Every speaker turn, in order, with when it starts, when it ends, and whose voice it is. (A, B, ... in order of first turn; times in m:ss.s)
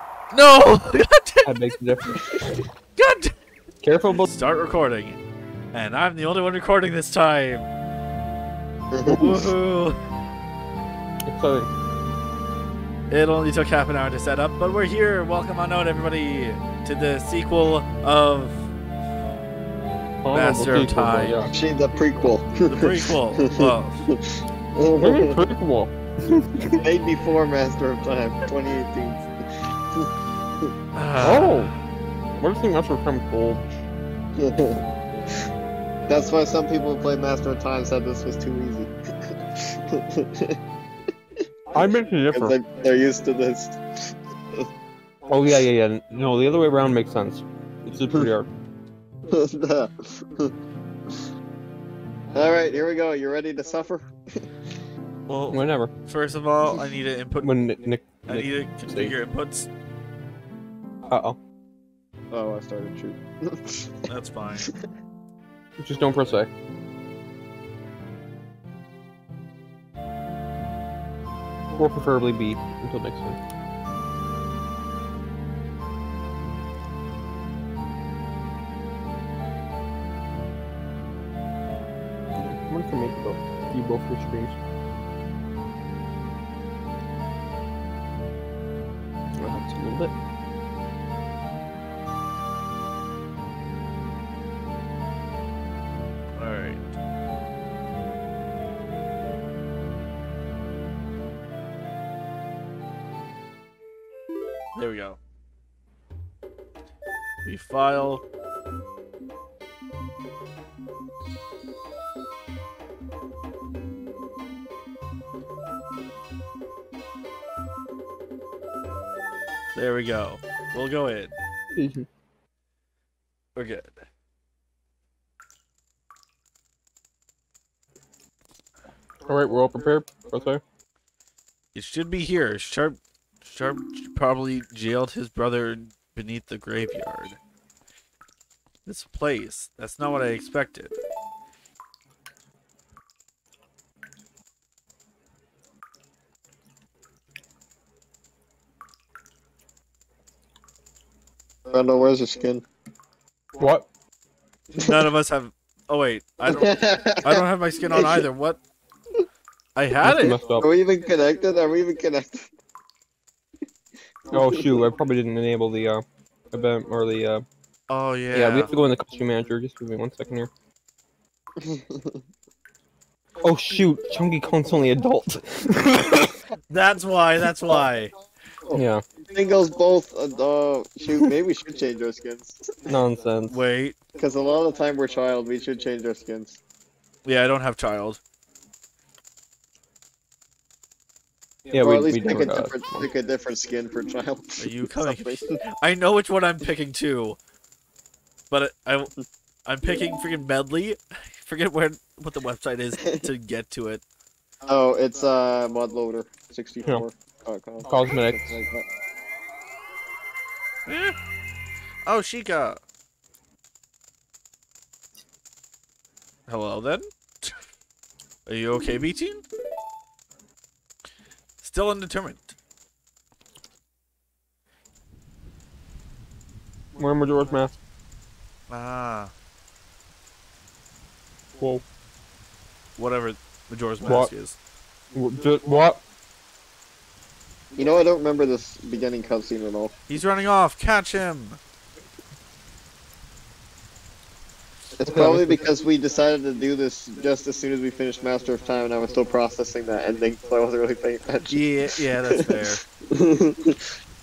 0:00.3-0:01.5 A
0:01.4-0:02.2 B
0:03.0-0:03.3 A
0:03.8-0:04.3 B
0:04.1-0:05.2 A
0:05.7-0:07.7 A
0:08.9-0:09.5 C
0:09.0-0:10.0 A
0:11.2-0:11.7 B
0:13.1-0:18.6 A
0:20.2-0:21.6 B
0:20.3-0:21.4 A
0:21.5-0:25.4 C
0:22.7-0:24.0 A
0:25.0-0:26.8 B
0:26.7-0:29.2 C
0:31.0-0:31.8 A
0:31.2-0:31.7 B
0:32.4-0:33.6 B
0:34.4-0:34.8 C
0:36.1-0:38.9 C
0:39.6-0:40.6 C
0:41.7-0:42.6 B
0:42.3-0:44.7 C
0:45.3-0:48.5 B
0:49.3-0:50.5 C
0:52.3-0:54.1 C
0:55.3-0:57.6 A
0:55.5-0:55.9 B
0:57.4-0:59.1 B
0:58.3-0:59.7 A
1:01.1-1:01.4 B
1:02.3-1:04.1 C
1:04.1-1:04.7 A
1:05.8-1:06.5 B
1:11.8-1:13.4 B
1:22.4-1:24.6 B
1:29.4-1:30.1 B
1:36.4-1:36.9 A
1:44.8-1:45.2 A
1:47.4-1:48.2 A
1:59.8-2:01.3 A
2:01.7-2:02.1 B
2:03.6-2:03.9 A
2:09.2-2:10.6 B
2:11.7-2:17.4 A
2:18.8-2:20.9 A
2:31.7-2:32.6 C
2:33.6-2:33.9 B
2:34.8-2:38.6 A
2:36.4-2:38.3 C
2:39.7-2:40.4 A
2:40.0-2:40.7 B
2:40.6-2:42.5 C
2:44.3-2:44.7 C
2:44.3-2:47.4 B
2:47.9-2:48.7 A
2:48.3-2:50.5 B
2:51.6-2:52.2 C
2:53.4-2:56.3 B
2:56.7-2:58.1 A
2:58.6-3:02.9 C
2:58.7-2:59.0 B
3:02.9-3:03.6 B
3:03.5-3:04.0 A
3:04.2-3:06.6 C
3:07.2-3:08.2 A
3:11.7-3:13.0 B
3:11.7-3:15.6 C
3:14.6-3:17.4 A
3:18.5-3:19.1 A
3:19.7-3:24.0 A
3:24.7-3:28.8 C
3:27.8-3:28.6 B
3:30.9-3:31.1 A
3:32.0-3:32.8 A
3:36.5-3:37.5 A
3:38.4-3:39.4 A
3:41.6-3:42.5 A
3:47.0-3:47.8 B
3:48.7-3:49.3 A
3:51.6-3:51.8 B
3:53.0-3:54.6 A
3:54.0-3:54.3 B
3:55.1-3:56.0 B
3:57.8-3:59.9 C
4:00.1-4:01.6 A
4:05.0-4:13.9 C
4:05.0-4:05.6 B
4:11.5-4:12.8 A